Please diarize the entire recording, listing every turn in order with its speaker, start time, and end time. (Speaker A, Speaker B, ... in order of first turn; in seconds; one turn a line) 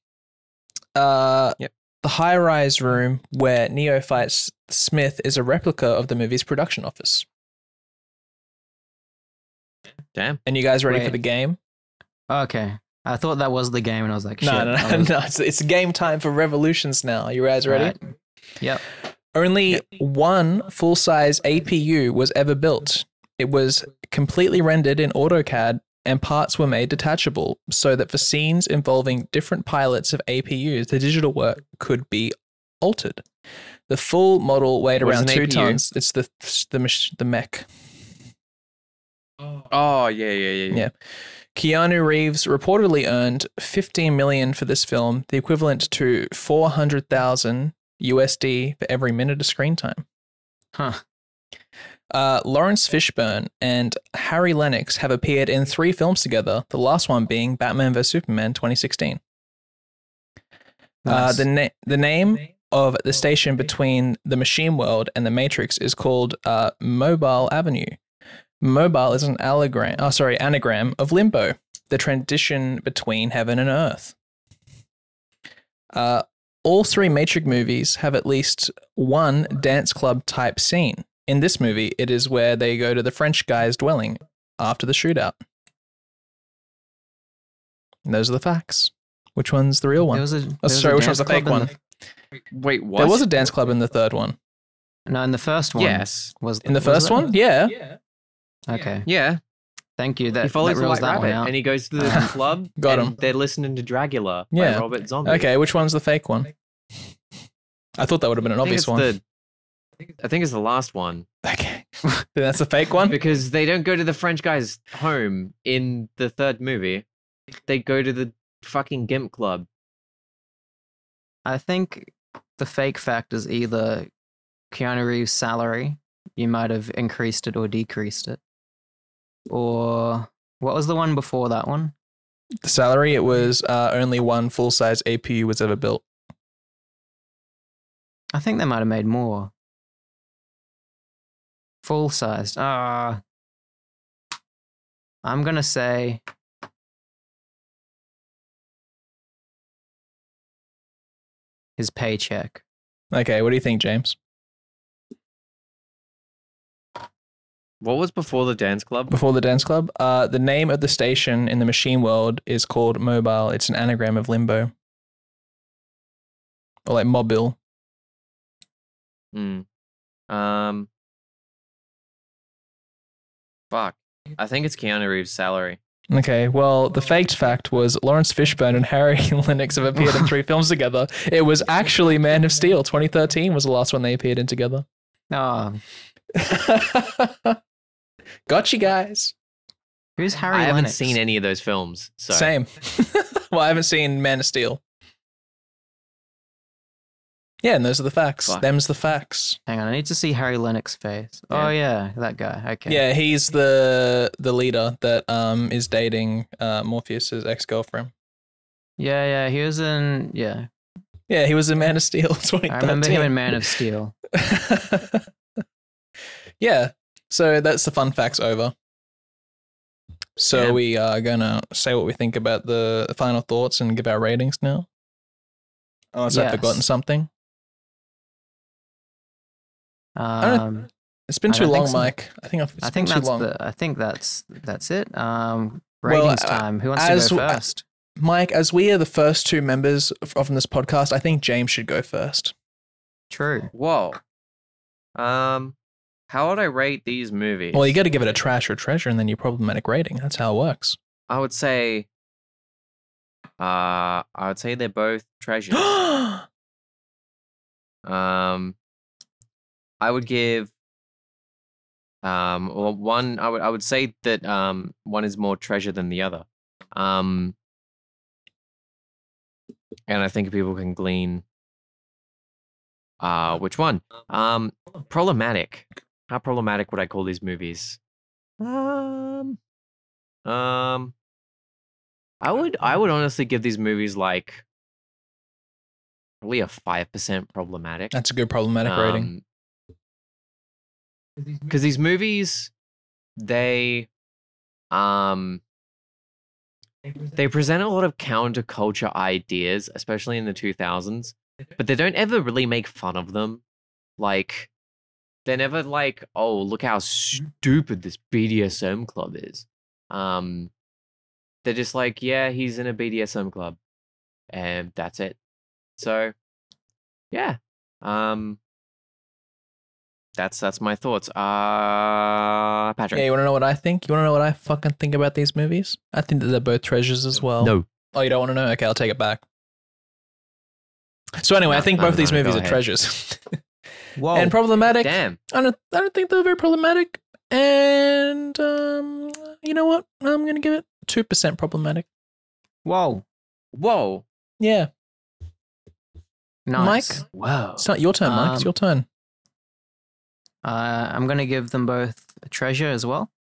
Speaker A: 0.9-7.2
Speaker B: 10.1-10.4
Speaker A: 10.4-11.6
Speaker C: 10.9-11.2
Speaker C: 12.3-15.1
Speaker A: 14.4-18.0
Speaker C: 17.6-18.0
Speaker A: 19.3-33.2
Speaker A: 33.9-37.7
Speaker B: 35.0-35.8
Speaker B: 39.7-40.8
Speaker A: 41.5-50.0
Speaker C: 50.7-51.0
Speaker A: 52.1-59.2
Speaker C: 61.0-61.5
Speaker A: 61.0-68.0
Speaker A: 68.6-74.1
Speaker A: 75.9-85.4
Speaker A: 88.0-91.7
Speaker C: 90.0-91.7
Speaker B: 92.5-93.3
Speaker A: 93.0-94.3
Speaker C: 95.1-97.3
Speaker B: 95.8-96.3
Speaker A: 96.6-97.8
Speaker C: 98.7-99.1
Speaker B: 99.0-99.4
Speaker C: 100.0-102.3
Speaker B: 100.4-105.5
Speaker A: 102.1-103.1
Speaker A: 104.5-106.5
Speaker A: 108.0-109.1
Speaker B: 108.6-109.2
Speaker B: 110.2-111.3
Speaker A: 111.4-113.2
Speaker B: 113.0-117.0
Speaker B: 117.7-119.7
Speaker C: 121.4-124.1
Speaker C: 124.7-128.4
Speaker C: 129.5-131.9
Speaker A: 132.6-136.0
Speaker C: 138.3-139.5
Speaker C: 141.8-143.2
Speaker C: 145.2-146.2
Speaker C: 151.8-152.6
Speaker A: 153.1-154.1
Speaker B: 157.8-159.1
Speaker A: 159.1-164.7
Speaker A: 166.8-167.6
Speaker B: 169.3-169.7
Speaker B: 170.3-170.9
Speaker B: 173.7-175.8
Speaker A: 176.1-184.8
Speaker C: 185.3-185.8
Speaker A: 186.3-187.6
Speaker A: 188.5-189.3
Speaker C: 190.2-191.2
Speaker B: 190.5-192.5
Speaker A: 192.3-194.8
Speaker A: 197.6-199.6
Speaker C: 199.7-203.0
Speaker A: 202.9-208.1
Speaker C: 209.0-210.7
Speaker A: 211.3-213.6
Speaker C: 212.7-214.1
Speaker A: 214.3-215.3
Speaker A: 216.6-218.7
Speaker A: 220.4-224.8
Speaker A: 226.1-227.3
Speaker C: 226.3-226.8
Speaker C: 230.2-230.9
Speaker A: 230.4-230.7
Speaker A: 231.3-233.5
Speaker C: 231.5-232.1
Speaker C: 232.8-237.8
Speaker A: 236.1-237.6
Speaker A: 238.2-242.5
Speaker C: 243.3-243.7
Speaker B: 243.7-244.2
Speaker B: 245.1-245.8
Speaker B: 246.3-248.0
Speaker A: 247.7-251.0
Speaker B: 251.3-252.1
Speaker B: 253.6-255.9
Speaker A: 255.8-256.4
Speaker B: 258.0-258.8
Speaker B: 260.0-260.7
Speaker B: 262.2-267.6
Speaker B: 270.1-271.4
Speaker B: 273.2-278.0
Speaker B: 278.6-279.6
Speaker B: 280.4-281.1
Speaker B: 282.4-284.6
Speaker B: 286.4-288.1
Speaker A: 288.1-289.3
Speaker B: 288.8-289.4
Speaker B: 291.7-292.7
Speaker B: 293.4-294.1
Speaker B: 294.9-295.6
Speaker B: 297.3-303.6
Speaker B: 304.2-304.7
Speaker B: 305.4-310.7
Speaker B: 311.6-313.8
Speaker B: 314.5-315.4
Speaker B: 316.0-316.3
Speaker B: 317.3-318.6
Speaker B: 320.4-323.2
Speaker A: 323.1-329.4
Speaker B: 327.6-327.9
Speaker A: 331.4-333.6
Speaker B: 331.7-332.8
Speaker C: 334.2-334.6
Speaker A: 334.3-342.0
Speaker B: 334.9-335.4
Speaker C: 342.8-343.2
Speaker B: 343.7-344.2
Speaker A: 344.6-344.9
Speaker C: 346.7-347.2
Speaker A: 346.8-347.2
Speaker B: 347.3-347.8
Speaker A: 347.8-349.1
Speaker C: 348.2-348.7
Speaker C: 350.6-353.3